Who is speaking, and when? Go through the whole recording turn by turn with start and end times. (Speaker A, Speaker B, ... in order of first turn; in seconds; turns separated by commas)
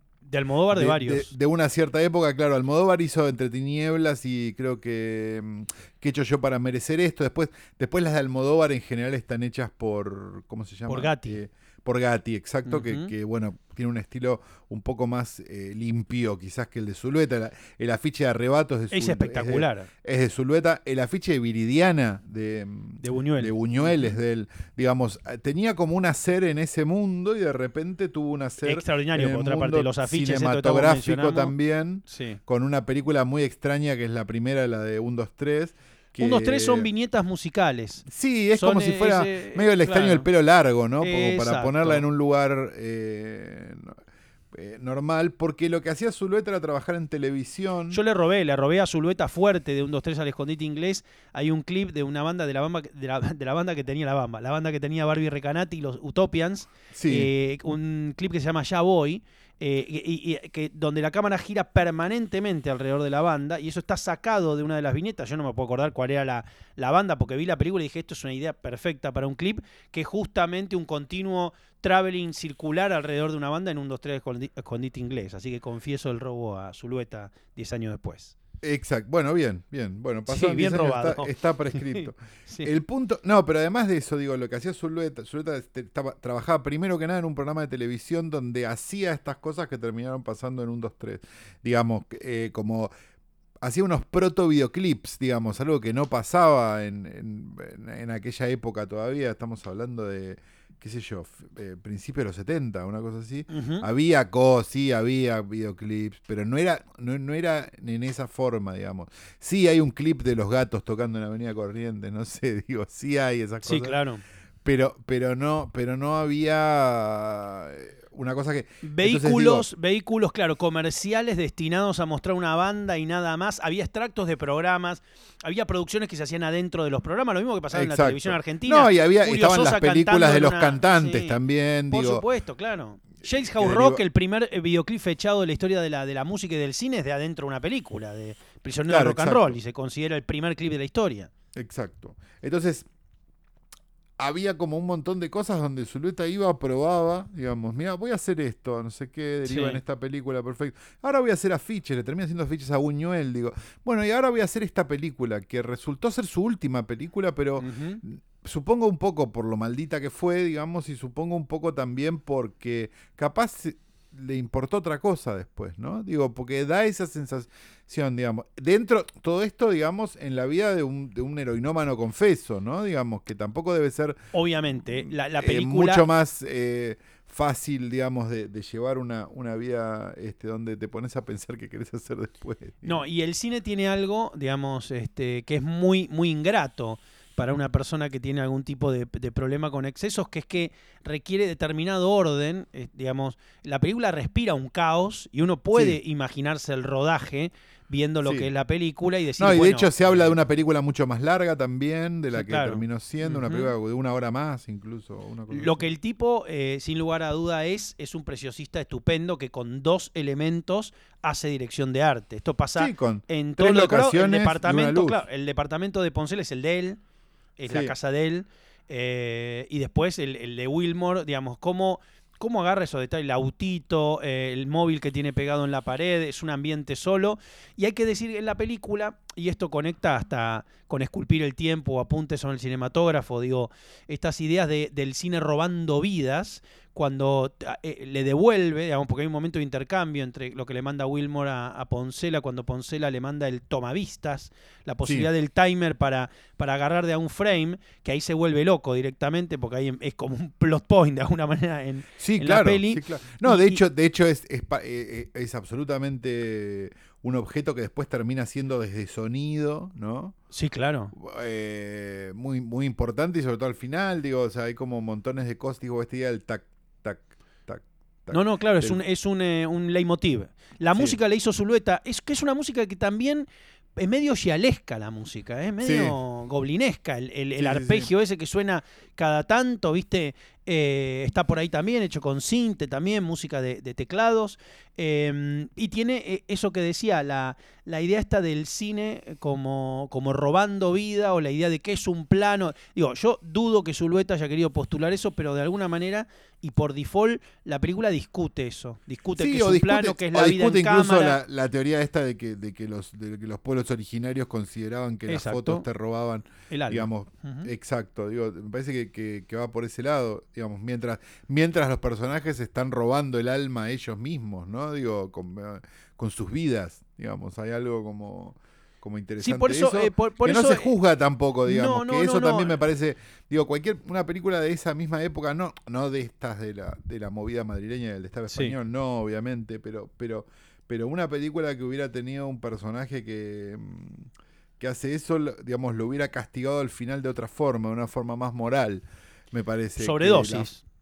Speaker A: 0.2-1.3, Speaker B: 0.7-36.9, Speaker A: 10.9-11.4, Speaker A: 12.7-13.1, Speaker A: 18.9-19.9, Speaker A: 23.0-24.1, Speaker A: 28.6-31.5, Speaker A: 32.1-32.4, Speaker A: 36.2-40.3, Speaker B: 38.1-44.0, Speaker A: 41.0-42.0, Speaker B: 44.5-48.0, Speaker A: 47.9-78.4, Speaker B: 56.9-57.3, Speaker B: 78.6-92.9, Speaker A: 80.3-82.7, Speaker B: 93.6-114.0, Speaker A: 103.5-103.9, Speaker A: 113.7-114.2, Speaker B: 114.6-119.7, Speaker A: 118.8-131.4, Speaker B: 127.7-132.2, Speaker A: 131.9-141.3, Speaker B: 133.6-134.0, Speaker B: 138.9-139.6, Speaker B: 141.6-142.9, Speaker B: 144.2-174.2, Speaker A: 149.4-149.8, Speaker A: 157.6-158.0, Speaker A: 174.3-176.1, Speaker B: 174.8-183.0, Speaker A: 182.8-200.3, Speaker B: 195.7-196.0, Speaker B: 198.2-198.5, Speaker B: 199.4-205.8, Speaker A: 202.3-203.7, Speaker A: 205.5-217.0, Speaker B: 212.8-215.2, Speaker A: 217.6-253.8, Speaker B: 217.7-217.9, Speaker B: 252.2-260.4, Speaker A: 260.5-261.1, Speaker B: 261.1-269.0, Speaker A: 268.3-301.4, Speaker B: 275.8-276.2, Speaker B: 277.6-278.1, Speaker B: 299.4-340.7, Speaker A: 305.3-305.9, Speaker A: 306.7-307.7, Speaker A: 319.4-320.9, Speaker A: 321.6-322.8, Speaker A: 328.5-328.8, Speaker A: 340.0-340.8